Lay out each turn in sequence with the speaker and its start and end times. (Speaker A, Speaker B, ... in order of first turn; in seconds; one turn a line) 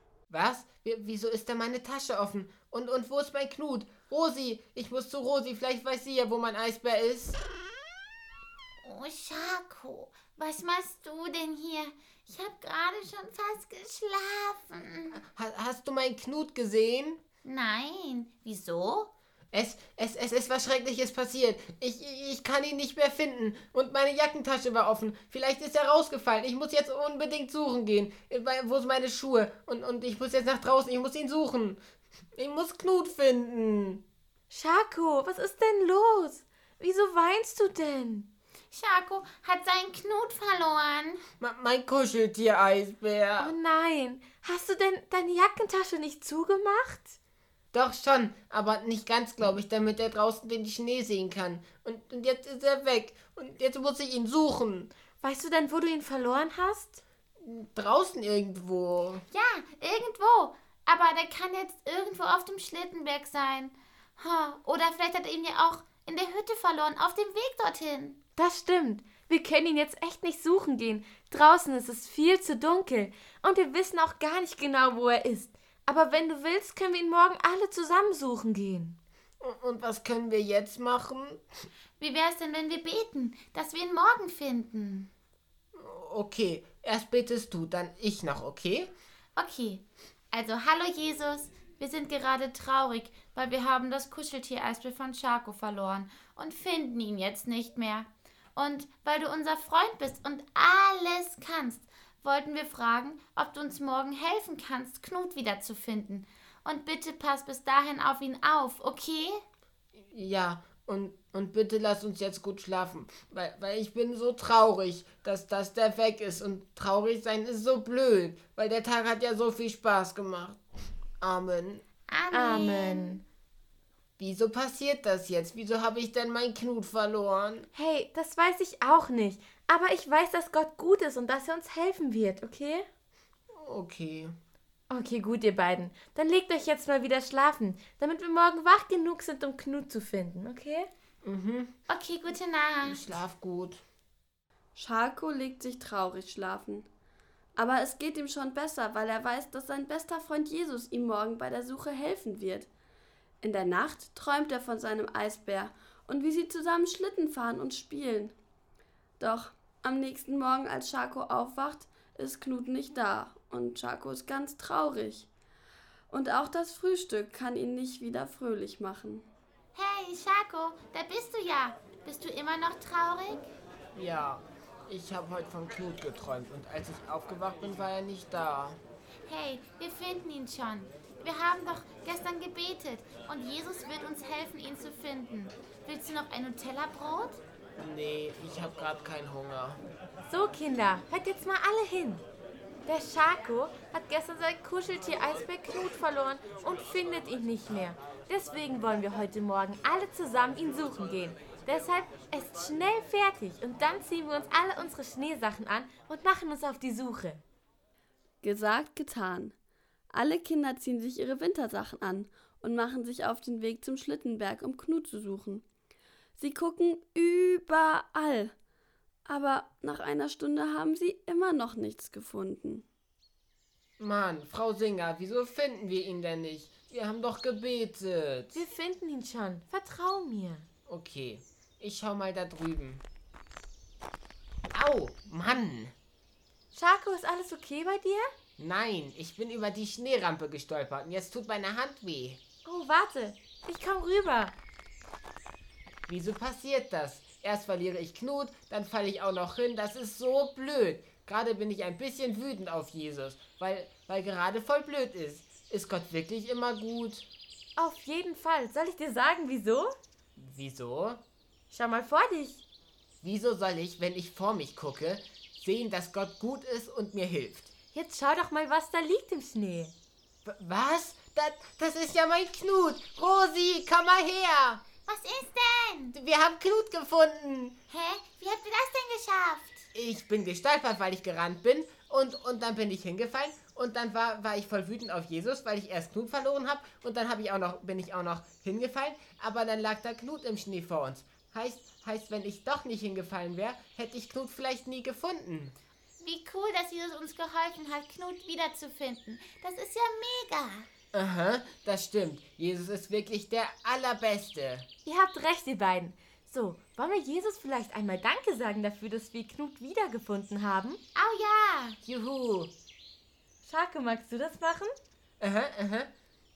Speaker A: 0.3-7.4
Speaker B: 8.8-15.2
Speaker A: 15.3-17.2
Speaker B: 17.4-19.1
Speaker A: 19.5-31.8
Speaker A: 32.4-34.0
Speaker C: 34.5-38.3
Speaker B: 38.7-41.2
Speaker A: 41.4-43.5
Speaker C: 43.4-47.2
Speaker A: 47.7-54.9
Speaker C: 55.2-57.0
Speaker A: 57.4-59.2
Speaker B: 59.3-68.2
Speaker C: 68.4-79.0
Speaker A: 79.4-81.4
Speaker B: 82.0-85.1
Speaker A: 85.8-88.9
Speaker B: 89.4-109.4
Speaker A: 110.0-120.6
Speaker A: 121.2-121.8
Speaker B: 122.1-123.2
Speaker C: 122.3-123.2
Speaker A: 124.2-127.7
Speaker C: 127.7-132.9
Speaker A: 133.5-134.3
Speaker C: 134.9-140.9
Speaker A: 141.2-141.7
Speaker B: 141.9-143.0
Speaker A: 142.8-143.8
Speaker D: 144.8-146.9
Speaker D: 147.6-152.7
Speaker D: 153.4-158.3
Speaker D: 159.2-165.3
Speaker D: 166.1-169.3
Speaker B: 169.8-173.5
Speaker A: 173.9-178.8
Speaker B: 179.3-187.4
Speaker A: 187.8-189.8
Speaker C: 190.3-192.2
Speaker C: 192.9-207.4
Speaker D: 208.4-209.5
Speaker D: 210.1-215.7
Speaker D: 216.4-218.5
Speaker D: 219.3-222.8
Speaker A: 224.0-228.6
Speaker C: 228.5-230.7
Speaker A: 230.9-233.0
Speaker A: 234.7-235.9
Speaker C: 236.7-238.3
Speaker A: 238.6-242.4
Speaker C: 242.7-244.6
Speaker A: 246.1-257.3
Speaker C: 257.8-259.9
Speaker A: 260.4-261.2
Speaker C: 261.7-262.6
Speaker A: 263.2-267.7
Speaker C: 267.9-269.9
Speaker A: 270.4-274.8
Speaker B: 275.1-276.2
Speaker A: 276.1-277.8
Speaker B: 277.9-279.9
Speaker A: 279.9-295.8
Speaker B: 296.2-300.9
Speaker A: 301.1-304.9
Speaker C: 305.1-311.0
Speaker B: 311.1-312.0
Speaker A: 312.1-312.7
Speaker C: 313.6-314.9
Speaker A: 315.4-316.1